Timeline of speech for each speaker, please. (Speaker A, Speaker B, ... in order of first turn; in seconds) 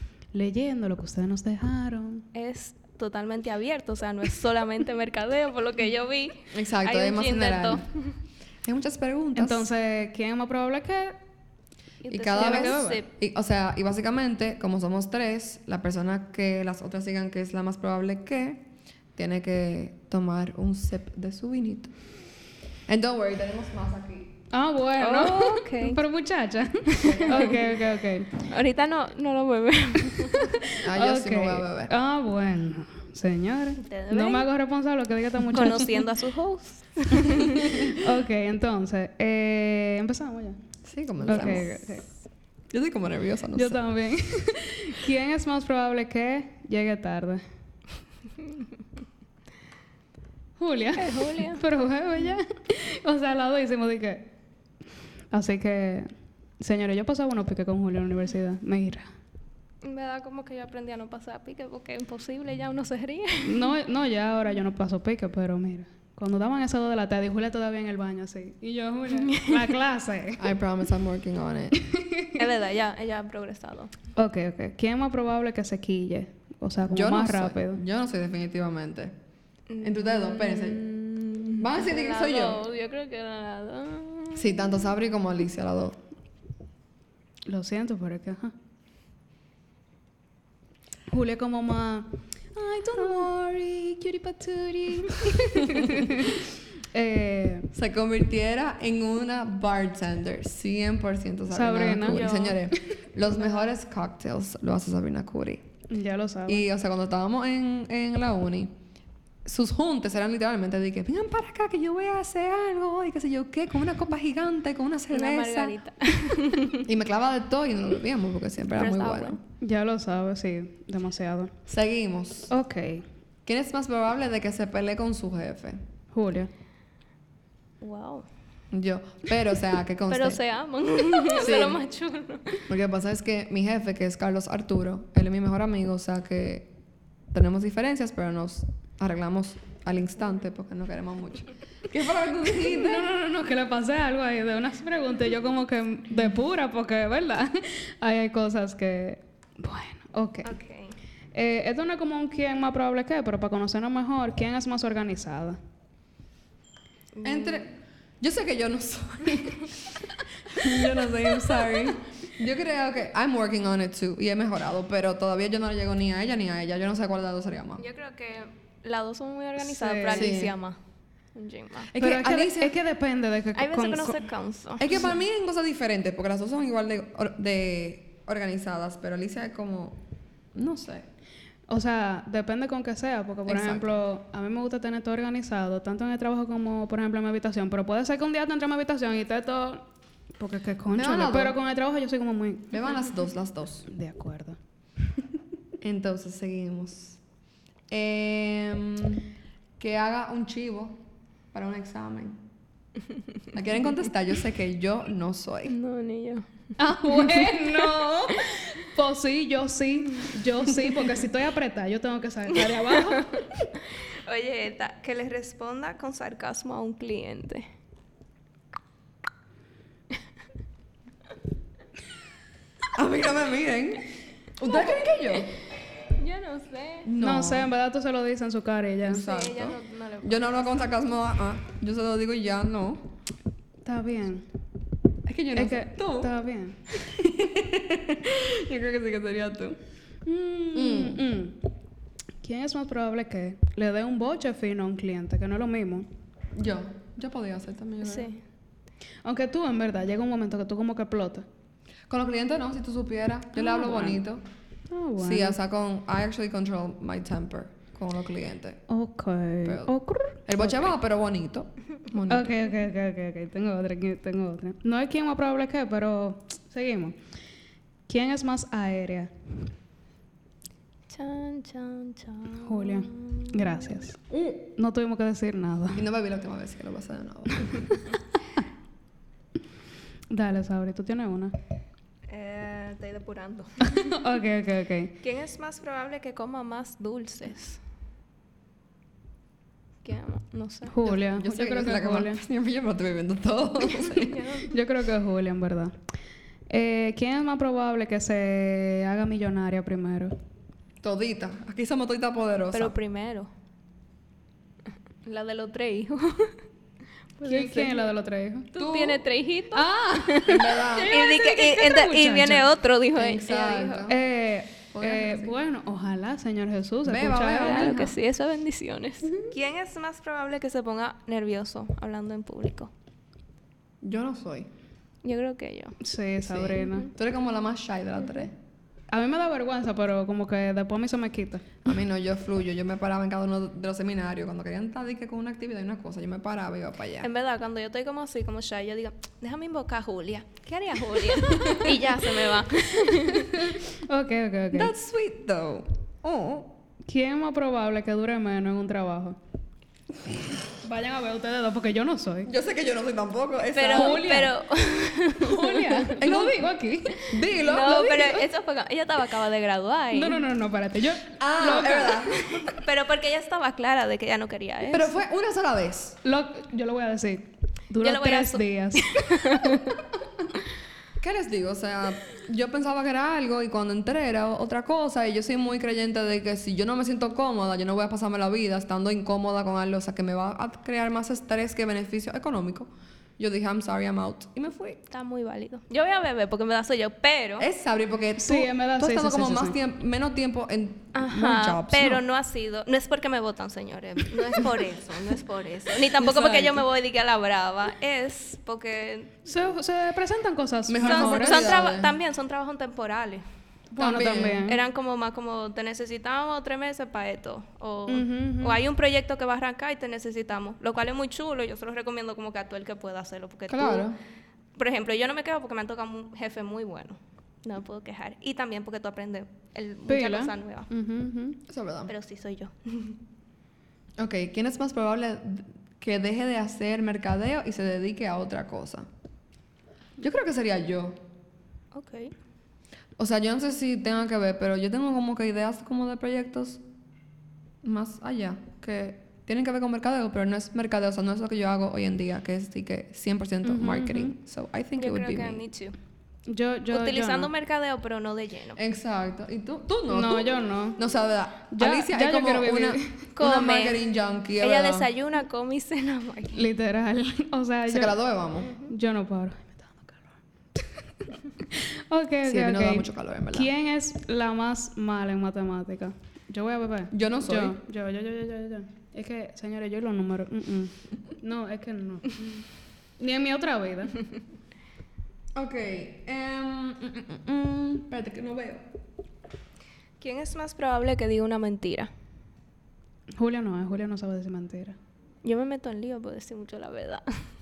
Speaker A: 0.3-2.3, 9.4-11.2, 12.3-13.0, 24.5-28.4, 30.5-36.0, 37.4-40.6, 41.2-42.1, 43.5-47.4, 50.6-54.3, 55.3-56.1, 56.6-59.1, 63.4-70.5, 71.8-72.4, 74.2-77.8, 87.5-88.5, 91.1-97.7, 101.5-102.2, 105.9-106.7, 119.6-121.5, 122.5-123.0, 126.1-126.5, 142.6-150.6, 151.3-155.6, 169.6-170.3, 171.9-174.3, 181.7-189.9, 190.4-192.9, 193.9-194.6, 206.8-213.4, 227.2-229.3, 233.8-234.5, 235.5-236.8, 240.2-241.6, 242.4-246.1, 249.2-251.4, 253.6-254.2, 254.9-255.6, 258.9-260.8, 262.3-267.2, 268.1-269.3, 272.6-274.2, 274.8-276.0, 280.3-281.5, 283.9-285.1, 290.9-292.4, 294.7-295.9, 296.7-300.3, 307.4-308.7, 309.7-312.7, 314.1-318.0, 326.0-327.1, 329.1-331.8, 343.3-344.9, 347.1-349.4, 350.8-352.5, 353.9-354.5, 355.4-357.3, 360.1-362.2, 366.2-369.9, 388.4-389.8, 399.5-401.8, 403.9-404.8, 408.1-408.8, 420.1-421.6, 443.6-444.4, 446.5-447.5, 450.1-451.0, 451.7-453.3, 456.5-458.2, 458.8-460.3, 461.6-472.7, 473.2-474.2, 483.4-485.0
Speaker B: 2.3-8.2, 12.0-13.1, 25.0-26.0, 28.4-30.5, 33.8-34.5, 35.5-37.9, 51.0-51.6, 59.8-63.7, 72.3-73.9, 79.7-84.7, 102.0-102.7, 115.1-116.8, 118.7-119.4, 127.8-128.3, 130.1-132.6, 150.4-150.9, 157.2-157.7, 167.8-170.8, 171.3-171.9, 173.6-175.0, 205.7-206.4, 212.5-213.4, 214.0-217.7, 224.7-224.9, 226.1-227.1, 229.1-230.9, 248.0-248.4, 271.1-274.0, 282.3-284.2, 285.2-287.8, 290.0-290.9, 294.1-294.7, 302.7-303.5, 305.3-306.6, 307.4-308.1, 308.7-314.1, 317.6-322.9, 325.2-326.0, 337.2-343.5, 353.7-356.1, 357.6-360.4, 362.1-365.1, 367.9-369.9, 385.1-387.7, 391.1-399.3, 401.0-403.4, 404.6-414.1, 414.8-420.9, 422.1-423.2, 431.9-432.3, 445.0-446.0, 446.9-448.8, 453.4-454.0, 454.6-456.7, 458.6-458.9, 480.2-482.1, 485.4-487.2
Speaker C: 6.5-7.8, 8.6-9.7, 12.1-21.9, 22.9-24.3, 27.0-27.7, 30.8-31.9, 40.9-41.7, 42.7-43.8, 70.4-71.8, 76.9-79.1, 79.8-80.8, 81.6-82.6, 84.3-86.0, 97.7-105.6, 106.5-108.7, 109.5-115.8, 116.8-119.4, 121.7-122.5, 123.5-125.8, 128.7-130.4, 131.3-131.8, 132.7-136.7, 137.3-143.1, 157.2-167.8, 170.1-170.6, 171.9-172.8, 174.8-180.0, 180.6-181.1, 183.5-184.0, 190.9-191.6, 192.7-193.9, 195.8-197.2, 197.9-201.0, 201.5-202.4, 203.5-205.8, 222.9-225.6, 227.1-227.7, 229.1-233.0, 235.2-236.3, 236.9-239.8, 240.8-241.2, 246.6-248.3, 252.1-254.4, 255.2-258.8, 259.6-259.9, 260.5-262.5, 274.3-274.6, 275.9-277.8, 291.0-294.4, 301.0-302.9, 308.8-309.2, 310.5-311.2, 313.1-314.2, 314.9-315.6, 317.1-318.2, 324.0-324.7, 326.4-328.5, 331.8-337.3, 341.6-341.9, 344.7-346.7, 352.5-354.3, 356.1-356.6, 357.3-358.5, 361.4-362.4, 364.9-366.2, 371.2-385.0, 387.6-392.2, 396.3-396.8, 400.9-402.1, 404.0-404.6, 413.7-414.2, 421.7-422.1, 424.2-429.1, 430.2-431.2, 433.2-436.8, 437.8-445.6, 448.8-455.1, 457.9-458.7, 462.4-463.7, 467.1-467.8, 475.6-478.8